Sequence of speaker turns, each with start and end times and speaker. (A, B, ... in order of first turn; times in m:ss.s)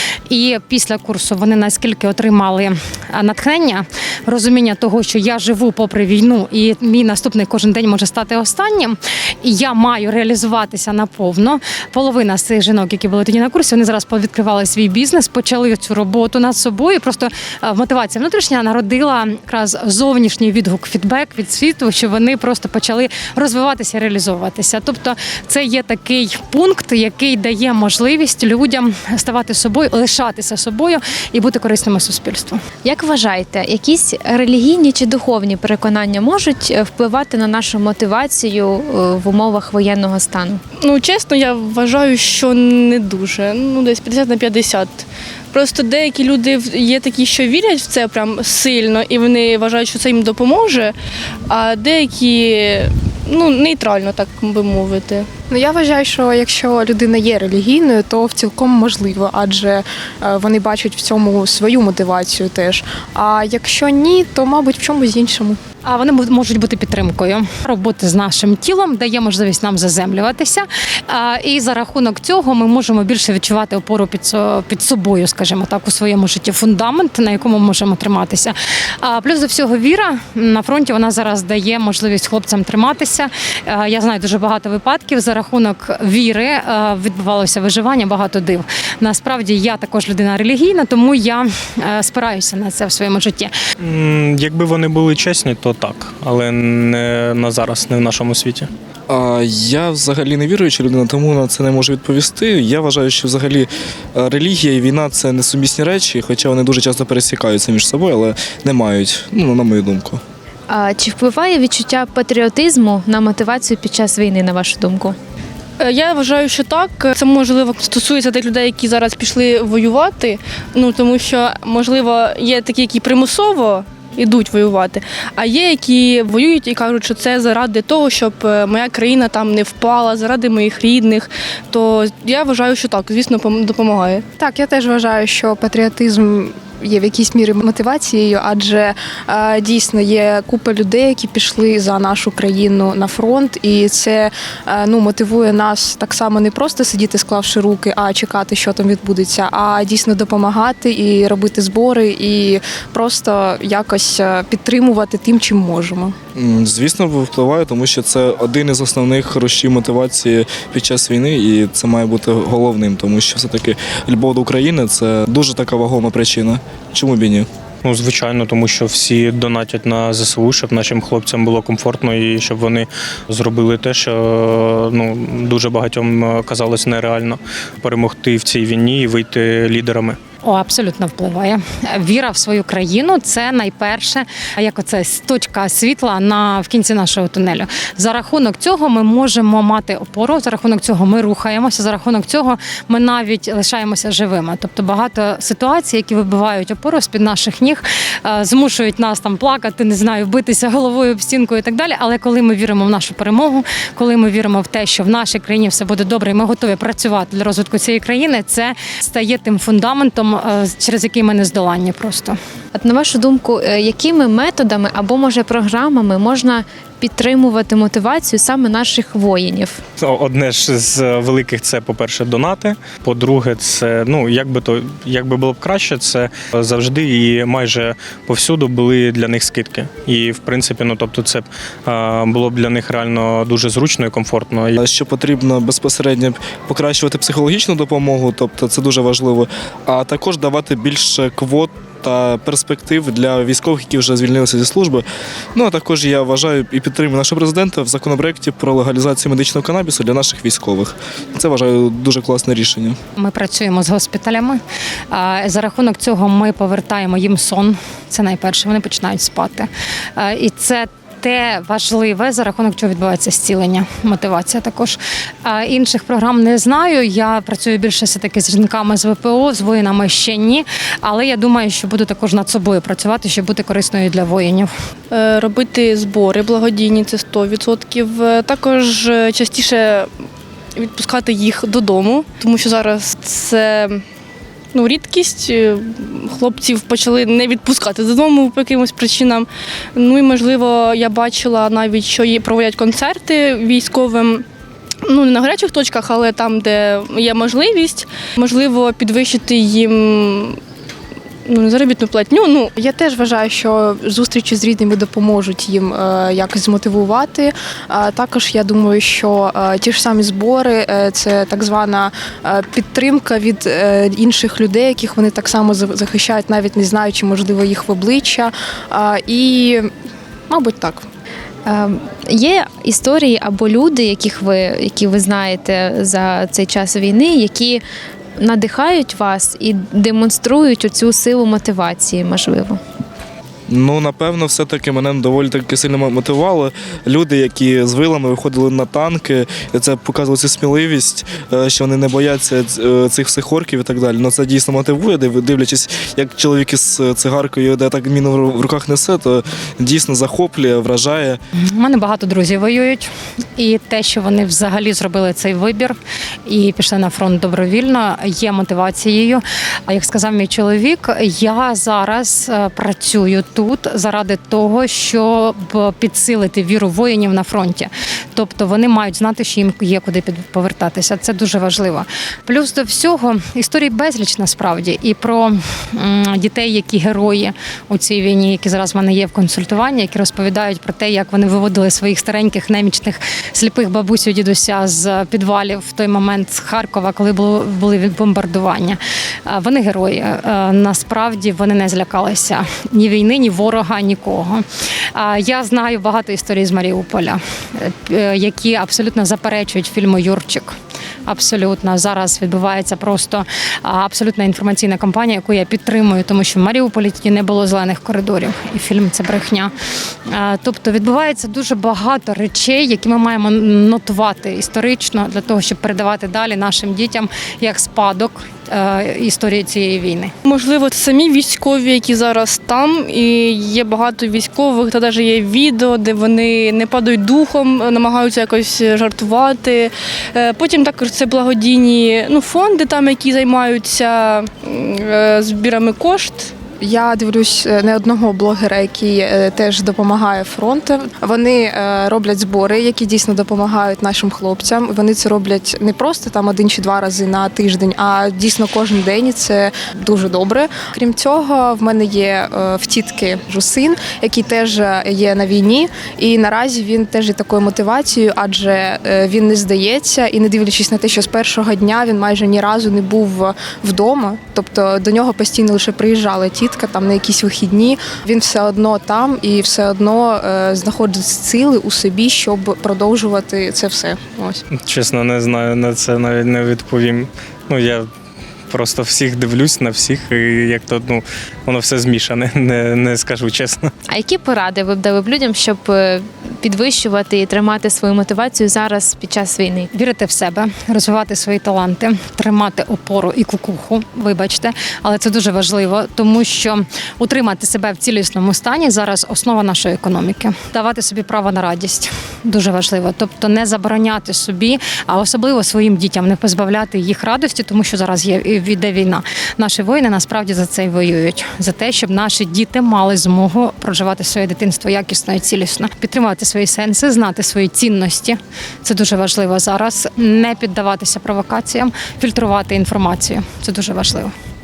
0:00.3-0:32.6 A
0:32.8-0:40.6 B
0:40.8-0:51.0 C
0:51.5-0:55.3 C
0:55.5-1:05.6 D
1:05.8-1:33.5 A
1:33.8-1:38.7 E
1:39.1-1:50.2 F
1:50.7-1:55.2 B
1:55.8-2:14.2 C
2:14.4-2:36.2 D
2:36.4-2:47.5 F
2:47.8-3:00.2 E
3:00.4-3:32.4 A
3:32.7-3:39.8 B
3:40.0-3:54.8 E
3:54.8-4:13.0 F
4:13.2-4:34.7 A
4:35.1-4:40.1 C
4:40.8-4:44.0 C
4:44.7-4:54.4 C
4:55.1-5:00.6 C
5:01.5-5:02.7 C
5:02.8-5:19.9 D
5:20.5-5:21.0 D
5:21.7-5:27.8 B
5:28.4-5:32.8 B
5:33.7-5:51.4 F
5:51.5-6:40.8 A
6:41.3-6:49.7 A
6:50.3-7:00.3 A
7:00.4-7:16.5 C
7:16.8-7:54.6 D
7:54.7-7:58.1 E
7:58.7-8:03.9 E
8:04.1-8:09.9 B
8:09.9-8:44.3 A